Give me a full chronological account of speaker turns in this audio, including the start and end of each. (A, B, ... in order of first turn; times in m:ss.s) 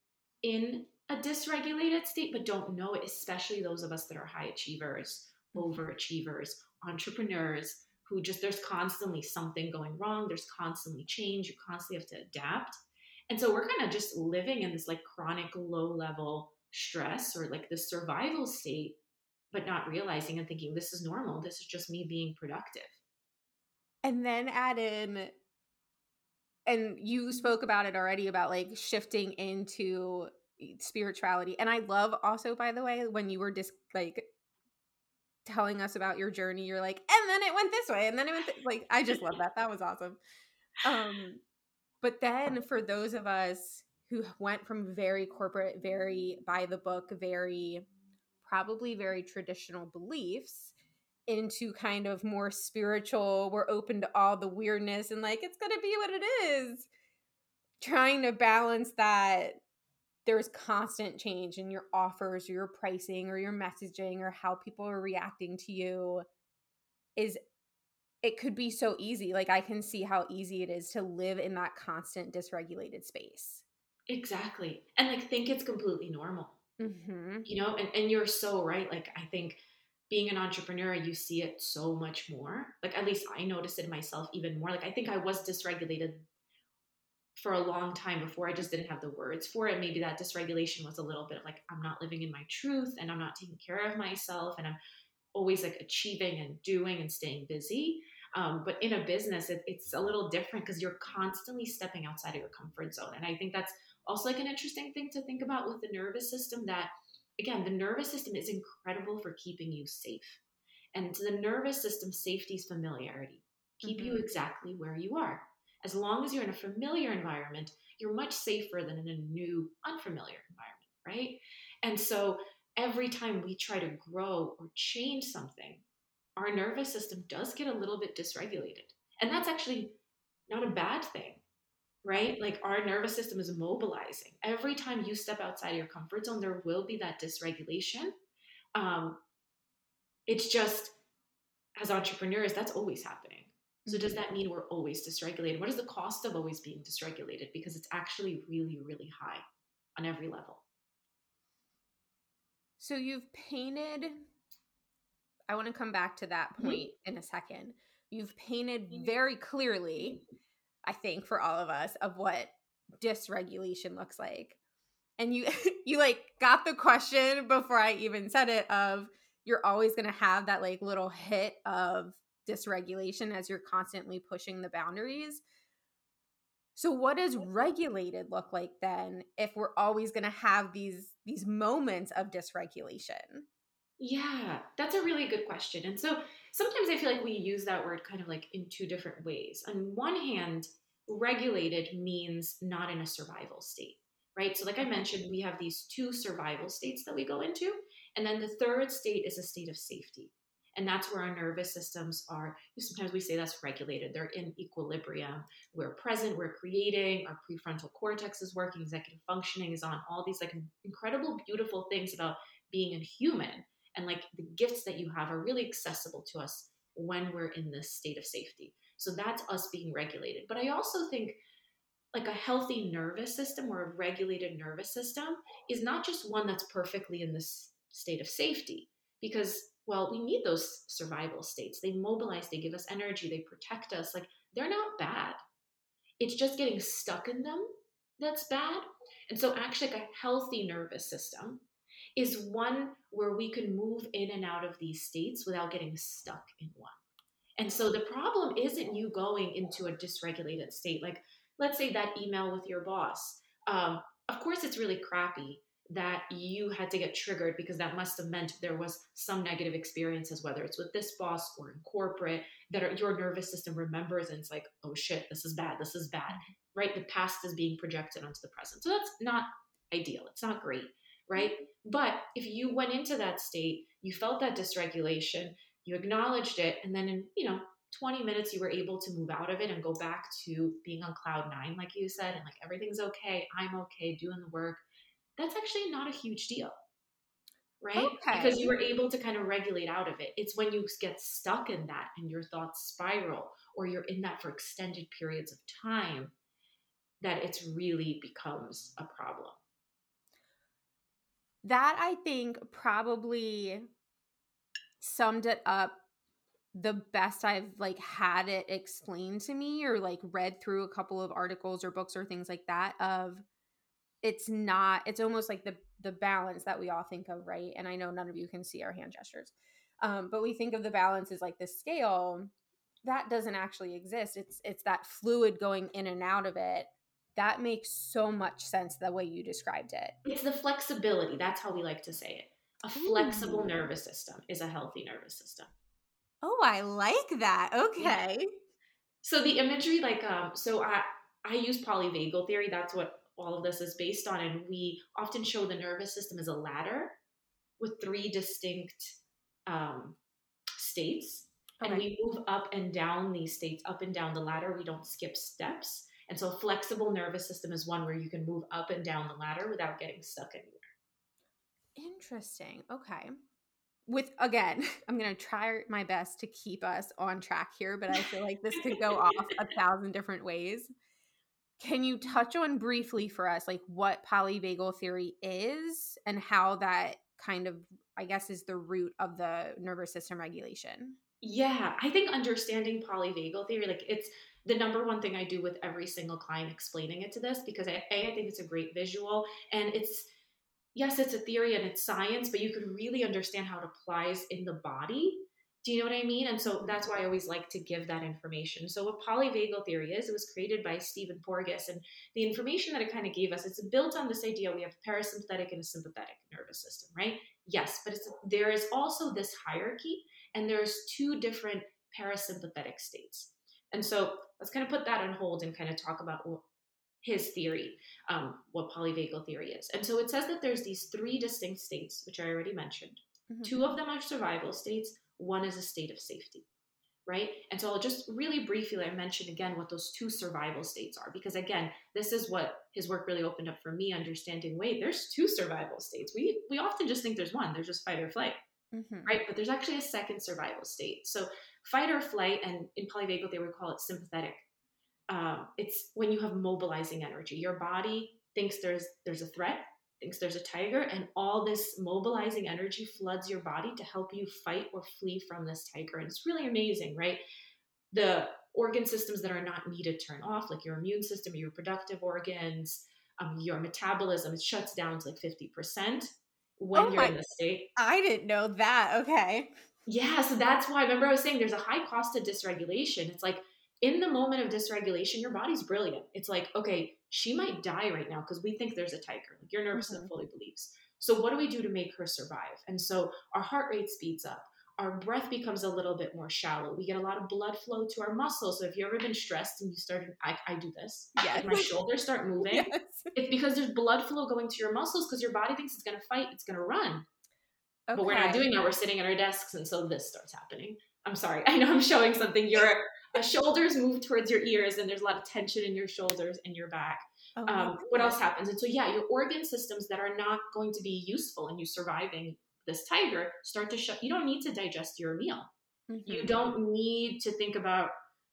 0:00.4-0:12.8 A
0:05.5-0:05.8 B
0:13.3-0:19.0 A
0:19.5-0:23.0 A
0:24.0-0:25.3 B
0:26.6-0:34.3 B
0:35.4-0:40.2 B
0:40.8-0:41.4 B
0:42.0-0:47.9 B
0:48.4-0:50.7 B
0:51.3-0:56.9 B
0:57.8-0:59.6 B
1:00.3-1:06.2 B
1:08.2-1:13.6 B
1:14.1-1:16.6 A
1:16.8-1:17.5 B
1:17.4-1:26.2 A
1:27.4-1:34.8 A
1:35.3-1:50.4 A
1:50.9-2:05.8 A
1:53.8-1:54.2 B
2:06.4-2:10.0 A
2:10.5-2:11.4 A
2:12.0-2:18.1 A
2:18.8-2:19.2 A
2:20.3-2:21.0 A
2:21.8-2:29.4 A
2:23.9-2:24.2 B
2:30.0-2:30.6 A
2:32.8-2:34.2 B
2:35.5-2:40.2 B
2:40.8-2:44.6 B
2:45.2-2:55.4 B
2:56.8-3:03.4 B
3:04.0-3:41.4 A
3:42.1-3:55.4 A
3:56.2-4:01.6 A
4:02.2-4:07.0 A
4:07.6-4:44.8 A
4:45.4-4:46.8 A
4:47.8-4:56.3 A
4:48.0-4:48.7 B
4:57.2-4:59.6 A
5:01.6-5:03.9 B
5:05.0-5:06.0 B
5:06.7-5:13.4 B
5:14.2-5:22.5 B
5:23.0-5:30.2 B
5:30.2-5:35.7 A
5:33.0-5:33.7 B
5:36.4-5:38.4 B
5:39.2-5:47.2 A
5:47.8-5:50.2 A
5:50.8-6:00.8 A
5:51.8-5:52.1 B
6:02.0-6:03.3 B
6:04.1-6:10.9 B
6:08.8-6:09.3 A
6:11.8-6:21.2 B
6:21.4-6:30.3 A
6:30.9-6:56.6 A
6:57.2-7:06.6 A
7:03.5-7:03.8 B
7:07.3-7:18.6 A
7:18.9-7:19.4 B
7:19.2-7:24.6 A
7:25.3-7:37.4 A
7:38.1-7:47.9 A
7:46.9-7:47.4 B
7:48.0-7:49.7 B
7:50.1-8:17.3 A
7:59.9-8:00.3 B
8:11.4-8:11.9 B
8:12.6-8:13.3 B
8:18.1-8:18.6 B
8:18.1-8:35.7 A
8:27.6-8:28.4 B
8:36.1-8:36.6 B
8:36.3-8:38.1 A